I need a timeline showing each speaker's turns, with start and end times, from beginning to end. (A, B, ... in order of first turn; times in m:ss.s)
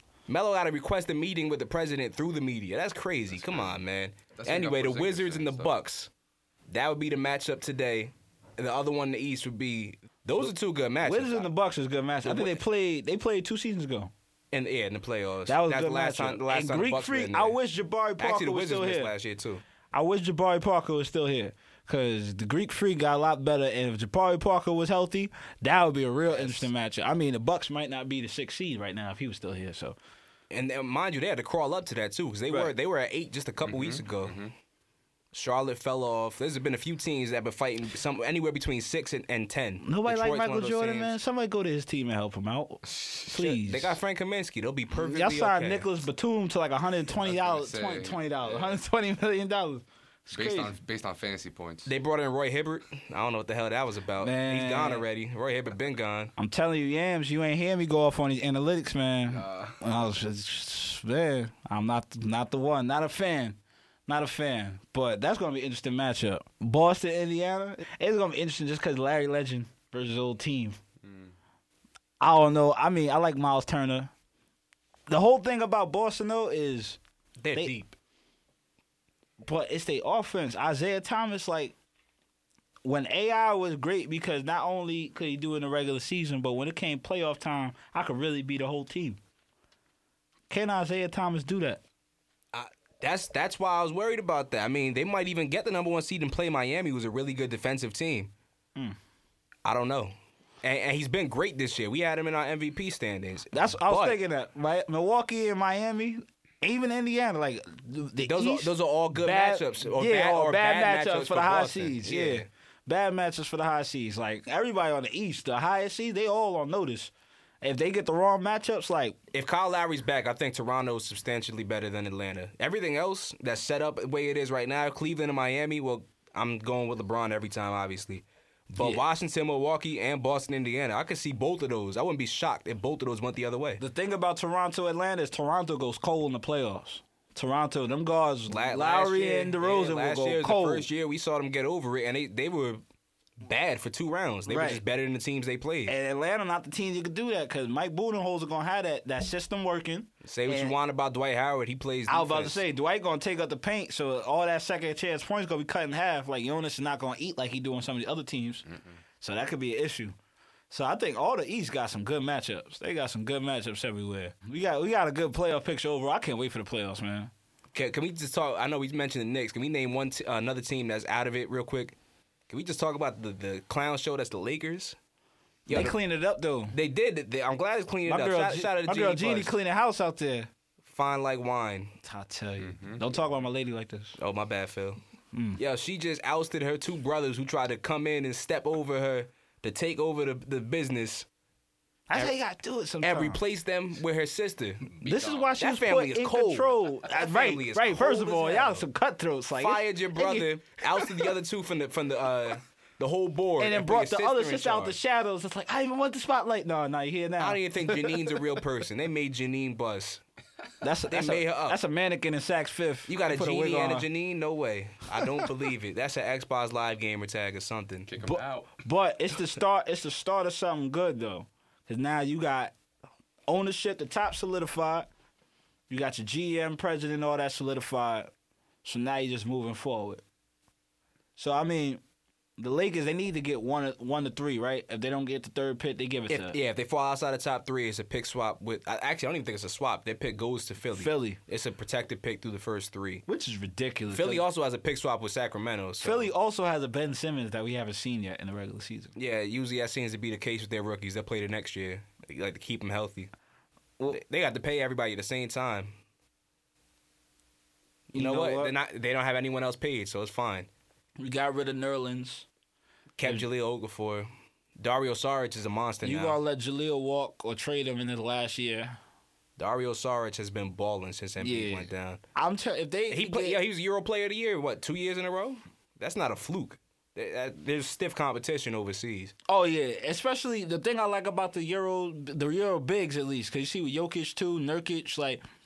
0:00.3-0:06.1 A
0:03.3-0:03.8 B
0:04.3-0:05.7 B
0:06.7-0:11.5 A
0:11.0-0:14.1 C
0:12.2-0:12.6 A
0:14.5-0:17.6 A
0:15.5-0:19.1 C
0:18.2-0:19.6 A
0:19.9-0:30.0 C
0:30.5-0:34.4 A
0:33.6-0:34.5 B
0:35.3-0:41.2 A
0:39.8-0:44.0 C
0:42.8-0:43.3 B
0:43.3-0:45.9 A
0:44.9-0:50.7 C
0:47.1-0:48.8 B
0:50.3-0:51.9 B
0:51.8-0:56.3 A
0:54.2-0:55.1 C
0:56.4-1:10.8 C
0:59.2-0:59.9 B
1:11.0-1:11.3 B
1:12.2-1:14.1 C
1:15.1-1:17.0 C
1:17.4-1:18.0 A
1:19.4-1:21.7 C
1:22.8-1:29.2 C
1:30.5-1:31.8 C
1:32.5-1:38.3 A
1:39.6-1:44.2 A
1:43.5-1:59.2 C
1:48.2-1:52.5 A
1:59.3-2:13.8 A
2:08.8-2:09.0 C
2:13.8-2:20.9 C
2:18.5-2:22.8 A
2:23.4-2:25.9 A
2:24.4-2:24.8 C
2:25.8-2:30.8 C
2:30.2-2:32.6 A
2:32.1-2:38.6 C
2:38.7-2:39.0 B
2:39.2-2:40.2 C
2:40.7-2:47.3 C
2:47.7-2:52.0 A
2:52.5-2:55.0 A
2:55.6-2:56.0 A
2:55.7-2:56.7 C
2:56.7-2:59.5 A
2:58.0-3:00.5 C
3:00.8-3:02.0 A
3:02.0-3:04.2 C
3:02.6-3:03.1 B
3:04.2-3:05.0 A
3:05.3-3:05.6 C
3:05.6-3:11.2 A
3:12.1-3:13.4 C
3:13.0-3:14.9 A
3:14.8-3:15.6 B
3:15.0-3:21.3 C
3:15.6-3:18.8 A
3:19.6-3:25.0 A
3:23.6-3:28.4 C
3:27.4-3:30.2 A
3:30.8-3:34.1 C
3:31.1-3:31.8 A
3:33.1-3:38.1 A
3:38.1-3:38.8 B
3:38.2-3:42.7 C
3:43.5-3:45.1 C
3:45.9-3:48.3 C
3:48.8-3:50.2 C
3:51.4-3:52.0 C
3:52.6-3:56.6 C
3:56.3-4:03.2 A
4:00.9-4:01.4 C
4:03.3-4:04.4 C
4:04.1-4:06.3 A
4:06.0-4:09.1 C
4:09.2-4:13.3 A
4:14.1-4:15.9 A
4:18.1-4:18.7 C
4:18.1-4:20.7 A
4:21.2-4:22.5 C
4:23.2-4:26.4 A
4:26.0-4:29.0 C
4:29.6-4:32.2 A
4:31.4-4:33.6 C
4:33.1-4:39.3 A
4:39.5-4:45.4 C